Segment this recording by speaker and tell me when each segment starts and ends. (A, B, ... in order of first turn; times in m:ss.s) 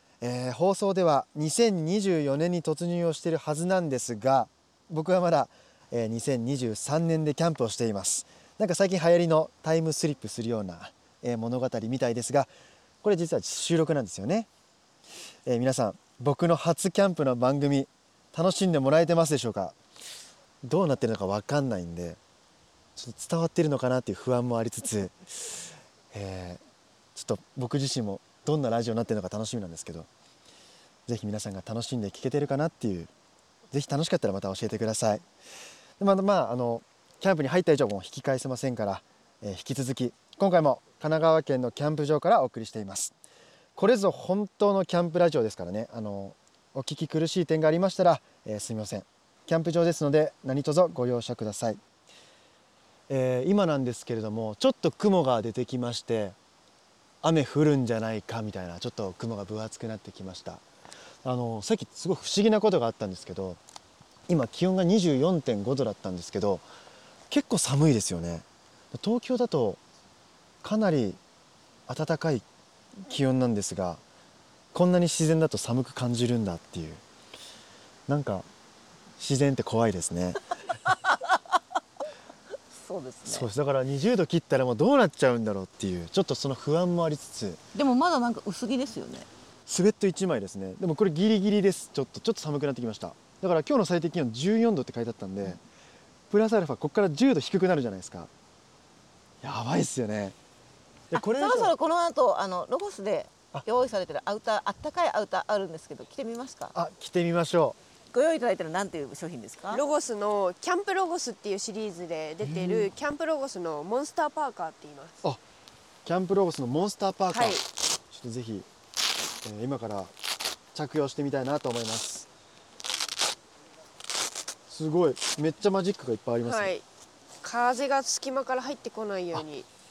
0:00.2-0:12.5 A
0:13.0-0:14.5 A
0:15.5-0:19.8 A
0:20.6-0:22.2 A
0:23.0-0:26.6 A
0:27.2-0:30.1 A
0:31.1-0:33.1 A
0:33.7-0:35.2 A
0:36.0-0:43.1 A
0:43.8-0:51.8 A
0:53.1-0:56.4 A
0:57.2-1:00.6 A
1:01.2-1:03.6 A
1:04.3-1:06.6 A
1:07.3-1:09.8 A
1:10.6-1:11.2 A
1:11.9-1:12.4 A
1:13.0-1:14.0 A
1:14.7-1:17.0 A
1:18.1-1:18.5 A
1:19.2-1:20.4 A
1:20.9-1:21.6 B
1:22.7-1:23.5 B
1:23.3-1:27.6 A
1:27.7-1:29.3 B
1:29.7-1:35.6 A
1:36.3-1:38.3 A
1:39.4-1:40.4 A
1:41.1-1:41.7 A
1:41.1-1:46.8 B
1:46.8-1:47.8 A
1:48.1-1:49.8 B
1:49.7-1:55.2 C
1:52.5-1:52.8 A
1:56.0-1:57.6 A
1:57.3-1:57.6 C
1:58.1-1:58.7 A
1:59.4-2:00.1 A
2:00.7-2:02.3 A
2:04.7-2:06.7 A
2:06.4-2:06.8 C
2:07.4-2:09.7 C